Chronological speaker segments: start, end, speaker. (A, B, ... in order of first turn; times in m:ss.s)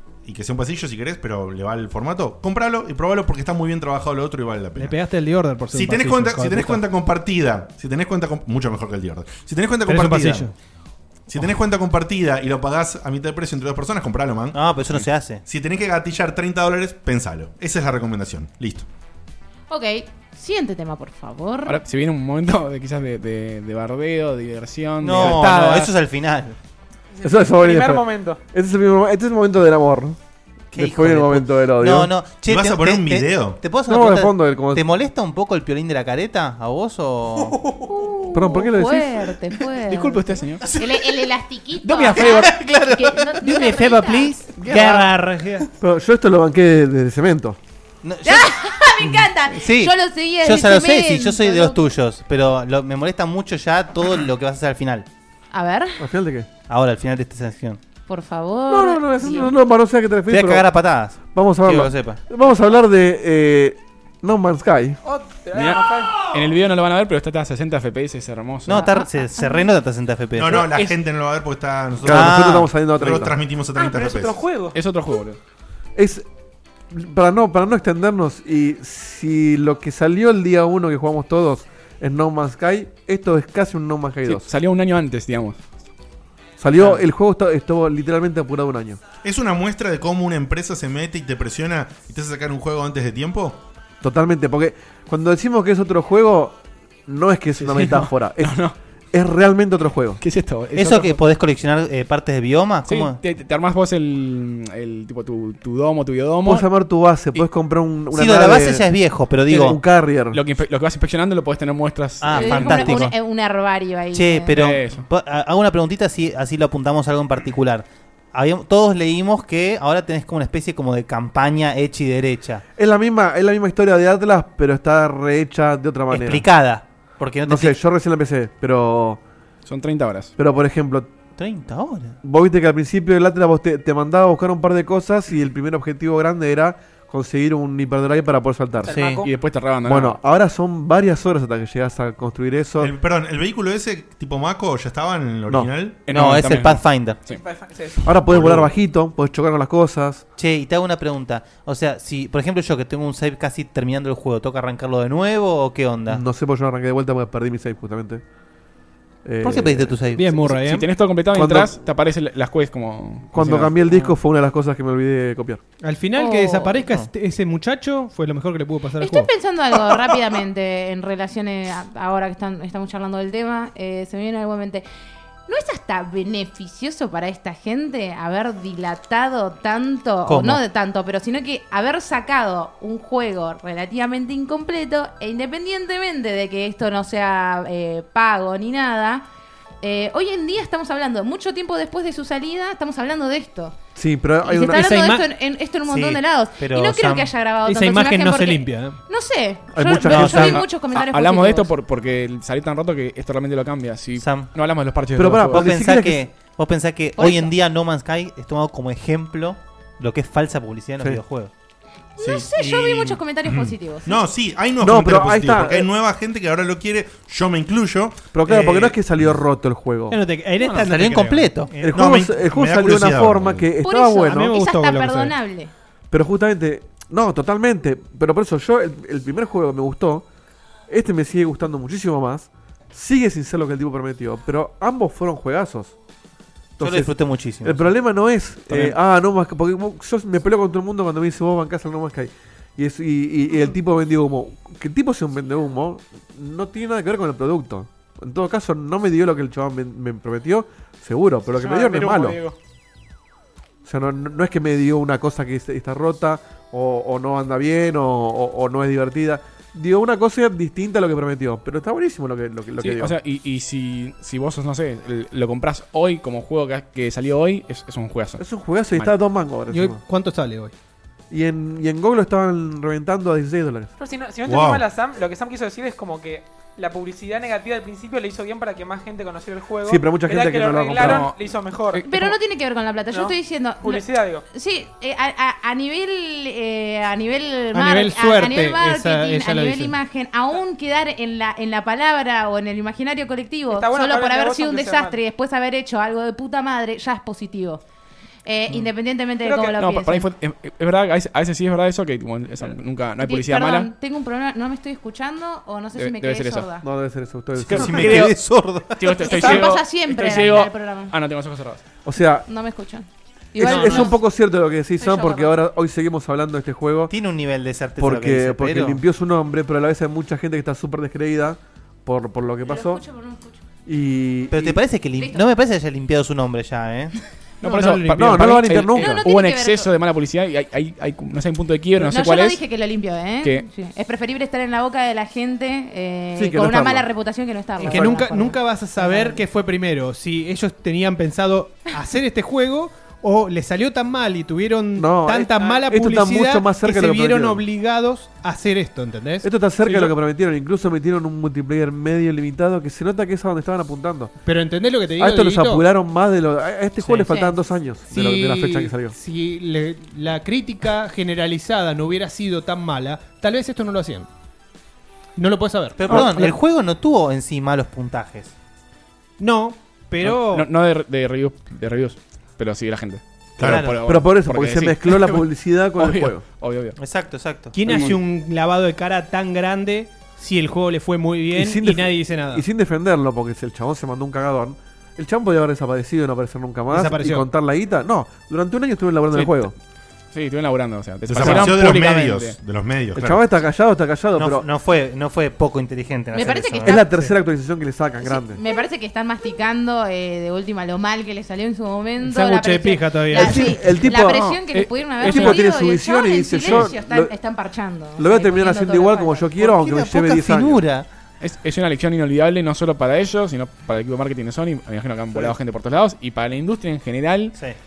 0:00.2-0:05.0 A
0:04.8-0:06.8 B
0:05.7-0:10.5 A
0:09.8-0:10.5 B
0:11.3-0:14.6 A
0:14.5-0:15.4 C
0:15.4-0:18.8 A
0:19.7-0:21.8 D
0:21.6-0:25.4 E
0:25.0-0:26.6 C
0:25.2-0:25.9 B
0:27.2-0:28.4 F
0:27.2-0:30.2 G
0:30.7-0:32.1 G
0:30.7-0:37.6 C
0:32.5-0:33.6 A
0:33.9-0:34.8 G
0:37.9-0:44.4 D
0:38.3-0:39.4 G
0:39.8-0:40.7 E
0:41.8-0:42.6 E
0:43.4-0:45.7 B
0:44.6-0:45.1 E
0:44.7-0:45.0 C
0:45.8-0:47.6 G
0:48.0-0:48.5 C
0:48.2-0:51.8 D
0:49.5-0:55.1 C
0:55.5-0:56.0 D
0:56.0-0:56.5 G
0:56.7-0:57.8 C
0:58.1-0:59.5 D
0:58.7-1:00.7 G
1:00.3-1:02.2 C
1:01.3-1:05.0 G
1:05.0-1:06.3 F
1:05.5-1:08.9 E
1:08.6-1:10.8 C
1:08.7-1:09.6 D
1:10.4-1:14.4 A
1:12.0-1:13.3 G
1:12.1-1:12.7 C
1:13.8-1:14.7 F
1:14.7-1:15.4 E
1:16.0-1:16.2 G
1:16.9-1:24.5 G
1:24.2-1:25.6 E
1:26.6-1:29.0 G
1:29.2-1:33.6 A
1:34.0-1:38.6 G
1:37.6-1:38.7 E
1:39.1-1:40.2 G
1:40.2-1:41.2 E
1:40.7-1:43.2 C
1:42.9-1:46.6 E
1:46.4-1:48.9 G
1:48.1-1:49.8 C
1:49.5-1:50.4 G
1:50.3-1:53.1 E
1:52.2-1:53.1 C
1:52.3-1:54.5 D
1:54.1-2:02.6 C
1:54.5-1:55.0 E
2:02.8-2:06.4 G
2:06.1-2:07.7 C
2:07.4-2:09.2 G
2:09.6-2:10.3 E
2:10.4-2:11.1 G
2:11.4-2:12.2 C
2:12.2-2:19.0 G
2:18.8-2:19.3 F
2:18.9-2:19.2 C
2:19.2-2:20.2 E
2:19.8-2:22.9 G
2:22.8-2:26.0 A
2:26.1-2:27.4 E
2:26.1-2:27.2 C
2:27.3-2:28.0 F
2:28.0-2:30.2 G
2:28.2-2:28.7 A
2:30.4-2:36.2 C
2:36.1-2:38.2 G
2:39.2-2:40.0 G
2:39.4-2:40.8 C
2:40.1-2:40.9 B
2:40.6-2:43.8 E
2:41.3-2:41.8 G
2:43.3-2:45.6 G
2:45.8-2:49.3 B
2:46.2-2:46.8 D
2:49.0-2:54.8 D
2:55.5-3:09.2 D
3:00.2-3:00.6 C
3:09.8-3:13.8 D
3:13.9-3:14.9 G
3:14.4-3:21.7 D
3:14.6-3:15.3 B
3:15.9-3:17.3 C
3:17.6-3:19.0 B
3:19.7-3:20.6 G
3:20.1-3:20.6 C
3:20.9-3:25.7 E
3:24.1-3:24.5 C
3:25.2-3:26.2 G
3:25.5-3:31.5 C
3:27.2-3:27.5 D
3:32.2-3:34.2 D
3:32.2-3:39.0 A
3:34.8-3:35.9 G
3:38.3-3:40.2 G
3:40.1-3:42.1 B
3:40.7-3:41.7 C
3:41.8-3:44.5 G
3:41.9-3:43.7 A
3:43.8-3:45.7 D
3:44.2-3:45.3 B
3:46.1-3:50.2 G
3:50.9-3:55.9 G
3:56.8-4:12.4 G
3:56.8-3:57.9 C
3:58.7-3:59.0 E
4:11.6-4:12.5 F
4:13.8-4:23.2 G
4:22.8-4:28.4 E
4:28.4-4:30.0 G
4:29.7-4:30.7 B
4:31.3-4:33.9 G
4:34.0-4:42.0 F
4:34.4-4:34.8 A
4:39.8-4:41.3 G
4:41.0-4:41.4 E
4:41.9-4:42.4 E
4:42.0-4:57.8 D
4:43.1-4:44.4 F
4:47.7-4:49.9 B
4:53.7-4:55.2 F
4:58.4-5:00.3 D
4:59.4-5:03.9 E
5:03.2-5:06.8 D
5:05.9-5:06.7 E
5:06.8-5:08.2 G
5:07.7-5:08.4 E
5:07.7-5:09.4 C
5:09.0-5:11.8 E
5:09.2-5:11.1 D
5:12.0-5:12.4 G
5:12.5-5:14.2 D
5:13.6-5:14.2 B
5:13.6-5:17.1 G
5:15.0-5:15.6 D
5:17.1-5:19.0 C
5:18.0-5:23.0 G
5:22.6-5:23.6 D
5:23.8-5:24.8 G
5:24.5-5:27.1 C
5:25.2-5:25.4 D
5:27.6-5:32.6 E
5:27.6-5:28.4 B
5:28.1-5:29.2 G
5:29.0-5:29.9 D
5:32.0-5:39.4 D
5:36.4-5:37.0 G
5:37.8-5:50.2 B
5:37.9-5:38.1 G
5:45.0-5:47.6 G
5:49.4-5:54.3 G
5:54.4-5:55.9 B
5:55.2-5:59.1 G
5:57.0-5:57.3 B
5:57.3-5:57.5 D
5:58.1-6:04.3 B
6:05.4-6:06.5 B
6:06.0-6:08.5 C
6:09.4-6:10.7 B
6:10.2-6:15.4 E
6:13.6-6:13.8 A
6:13.6-6:14.0 C
6:14.0-6:16.4 G
6:16.0-6:17.0 E
6:17.0-6:17.8 C
6:17.7-6:22.6 B
6:17.8-6:18.2 E
6:21.5-6:29.7 G
6:26.9-6:27.5 B
6:29.3-6:29.7 E
6:30.3-6:32.6 E
6:31.2-6:33.4 A
6:31.4-6:32.0 C
6:33.1-6:34.6 G
6:34.3-6:37.2 C
6:36.3-6:37.2 D
6:36.8-6:38.6 G
6:38.2-6:49.4 D
6:42.2-6:43.8 B
6:43.3-6:44.5 G
6:44.2-6:45.6 E
6:45.2-6:47.3 G
6:48.2-6:50.8 G
6:49.6-6:51.1 C
6:51.4-6:57.5 E